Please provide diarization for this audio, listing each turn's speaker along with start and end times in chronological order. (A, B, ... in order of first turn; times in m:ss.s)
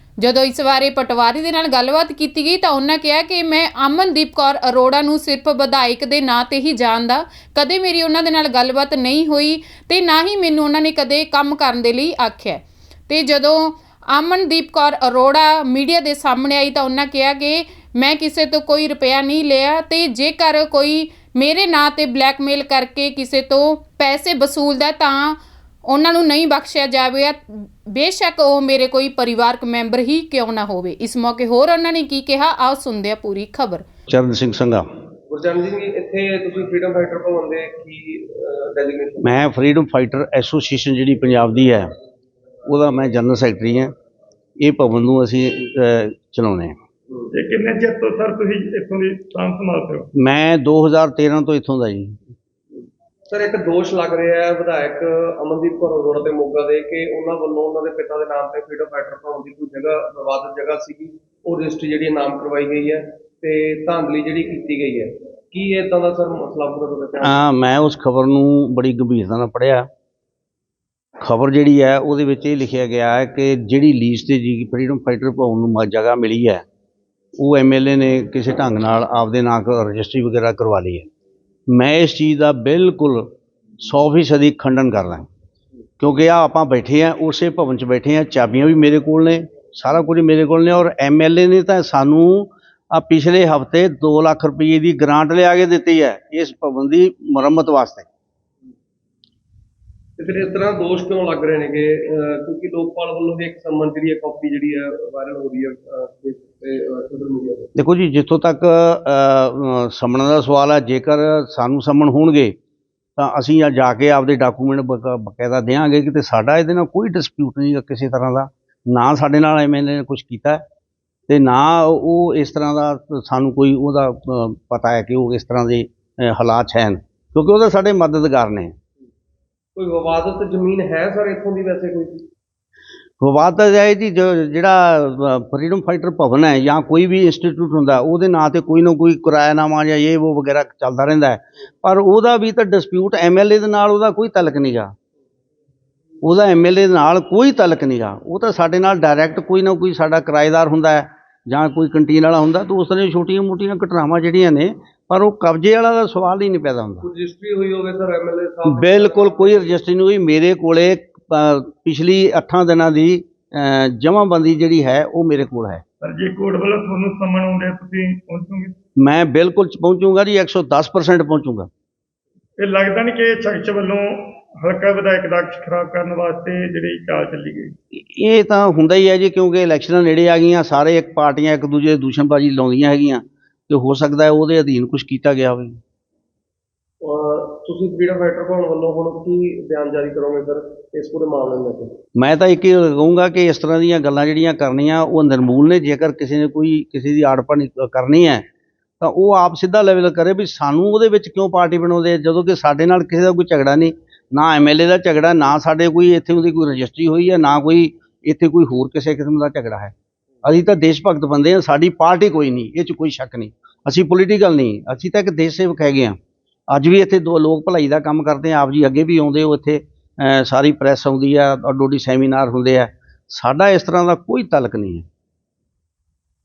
0:00.2-0:25.4 A
0:25.9-0:33.9 A
0:34.1-0:34.9 B
0:35.3-0:39.4 C
0:39.2-0:41.9 B
0:42.7-0:43.9 B
0:44.6-0:46.8 B
0:47.3-0:50.1 D
0:50.2-0:52.3 B
0:53.3-1:07.4 C
1:07.2-1:09.9 B
1:11.2-1:16.6 B
1:17.4-1:21.1 B
1:21.7-1:25.3 B
1:26.0-1:38.1 B
1:40.2-1:47.7 C
1:47.8-1:52.6 B
1:53.2-2:00.6 B
2:01.3-2:08.8 B
2:09.8-2:12.2 C
2:13.2-2:25.0 B
2:26.2-2:37.0 B
2:37.0-2:39.8 C
2:38.7-2:45.8 B
2:46.0-2:48.8 D
2:49.0-2:51.7 B
2:52.6-2:57.7 D
2:57.9-3:05.8 B
3:07.0-3:11.9 C
3:12.2-3:18.5 B
3:19.0-3:36.2 B
3:36.7-3:45.1 B